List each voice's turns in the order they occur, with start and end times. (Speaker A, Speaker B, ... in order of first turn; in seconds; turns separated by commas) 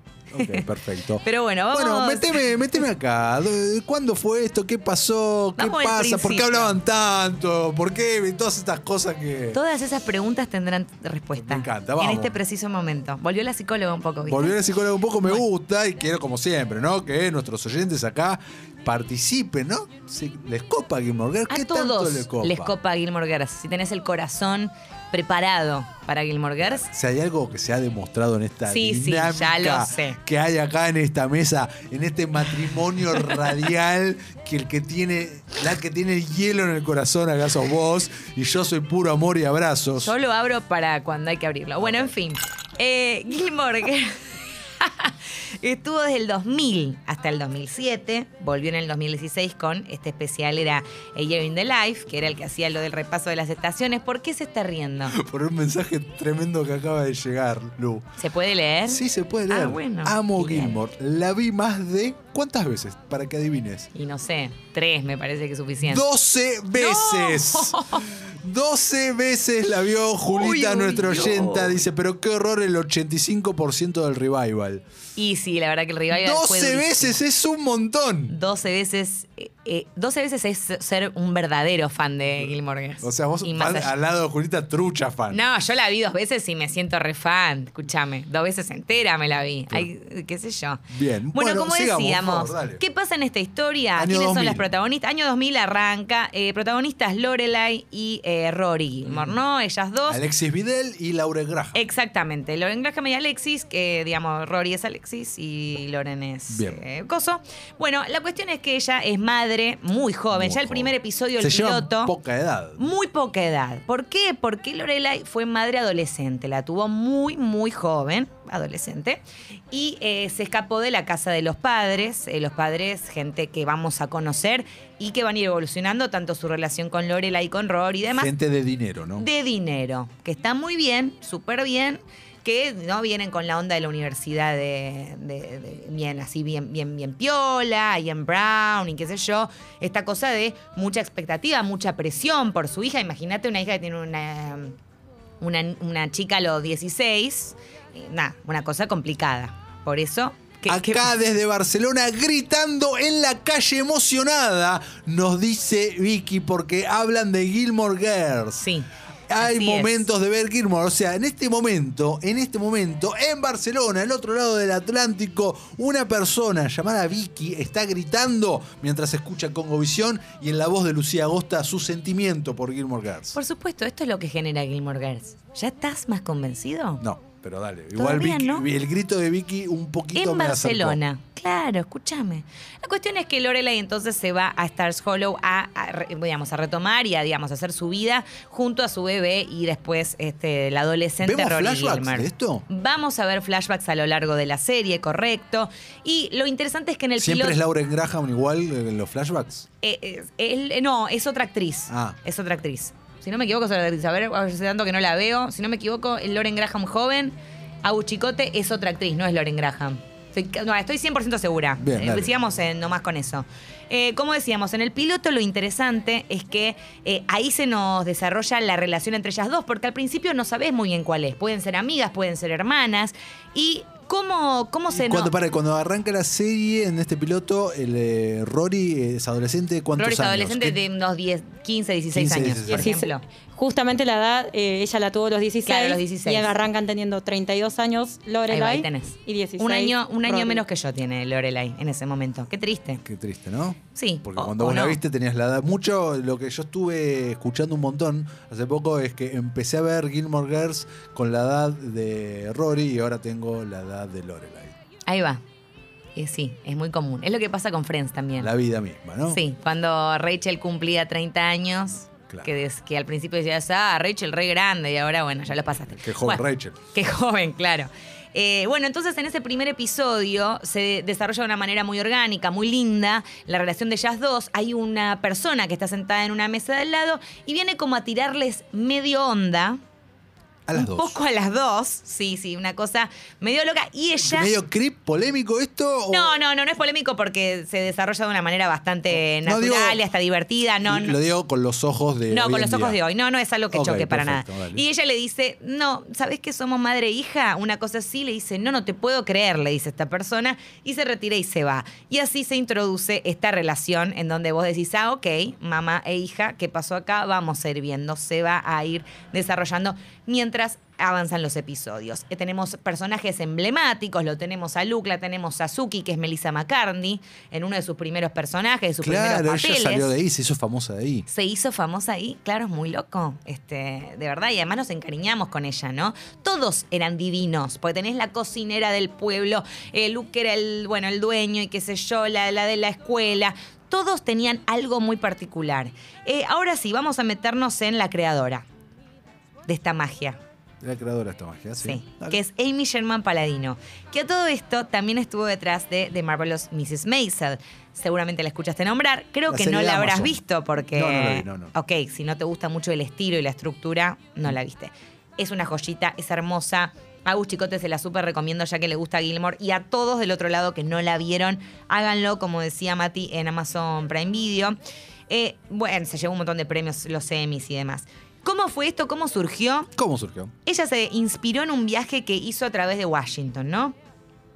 Speaker A: 0.3-9.6, Speaker B: 0.4-0.7, Speaker B: 1.2-2.6, Speaker B: 5.6-6.8, Speaker B: 9.5-14.6, Speaker A: 11.4-12.4, Speaker A: 14.3-22.7, Speaker B: 21.5-26.9, Speaker A: 26.6-40.1, Speaker B: 28.7-30.2, Speaker B: 40.0-44.2, Speaker A: 41.8-42.1, Speaker B: 44.8-55.2, Speaker A: 55.1-58.1, Speaker B: 58.2-60.8, Speaker A: 58.9-63.9, Speaker B: 64.0-66.0, Speaker A: 65.8-74.8, Speaker B: 66.8-68.1, Speaker B: 70.3-71.8, Speaker B: 75.2-77.2, Speaker A: 76.1-78.3, Speaker B: 78.3-83.9, Speaker A: 83.0-85.4, Speaker B: 85.3-90.8, Speaker A: 90.9-92.8, Speaker B: 91.3-100.2, Speaker A: 94.0-94.7, Speaker A: 99.1-99.4, Speaker A: 100.1-101.8, Speaker B: 101.7-112.1, Speaker A: 106.5-106.8, Speaker A: 110.3-112.9, Speaker B: 112.8-128.3, Speaker A: 128.2-129.3, Speaker B: 129.2-144.8, Speaker B: 145.4-151.1, Speaker A: 150.7-158.7, Speaker B: 158.6-158.9, Speaker A: 159.3-173.4, Speaker B: 159.4-160.1, Speaker B: 173.3-177.0, Speaker A: 177.0-181.0, Speaker B: 178.0-178.7, Speaker B: 180.2-197.6, Speaker A: 191.2-192.7, Speaker A: 197.2-199.7, Speaker B: 199.8-225.3, Speaker A: 201.9-202.2, Speaker A: 211.8-212.4, Speaker A: 224.9-230.8, Speaker B: 230.0-233.2, Speaker A: 232.1-232.9, Speaker C: 232.7-240.6, Speaker B: 235.7-236.5, Speaker B: 238.5-243.0, Speaker A: 243.1-254.8, Speaker B: 243.9-245.0, Speaker B: 255.1-255.4, Speaker B: 256.2-258.5, Speaker A: 258.4-259.4, Speaker B: 259.3-279.8, Speaker A: 265.9-266.8, Speaker A: 280.7-281.2, Speaker B: 280.7-284.5, Speaker A: 284.2-286.4, Speaker B: 286.1-291.2, Speaker A: 289.1-290.0, Speaker A: 290.8-293.0, Speaker B: 292.3-320.1, Speaker A: 293.7-294.8, Speaker A: 319.0-321.3, Speaker B: 321.3-338.7, Speaker B: 339.7-340.4, Speaker A: 340.8-342.4, Speaker B: 341.8-364.8, Speaker A: 349.5-351.7, Speaker B: 365.3-369.9, Speaker A: 370.0-370.5, Speaker B: 370.6-374.0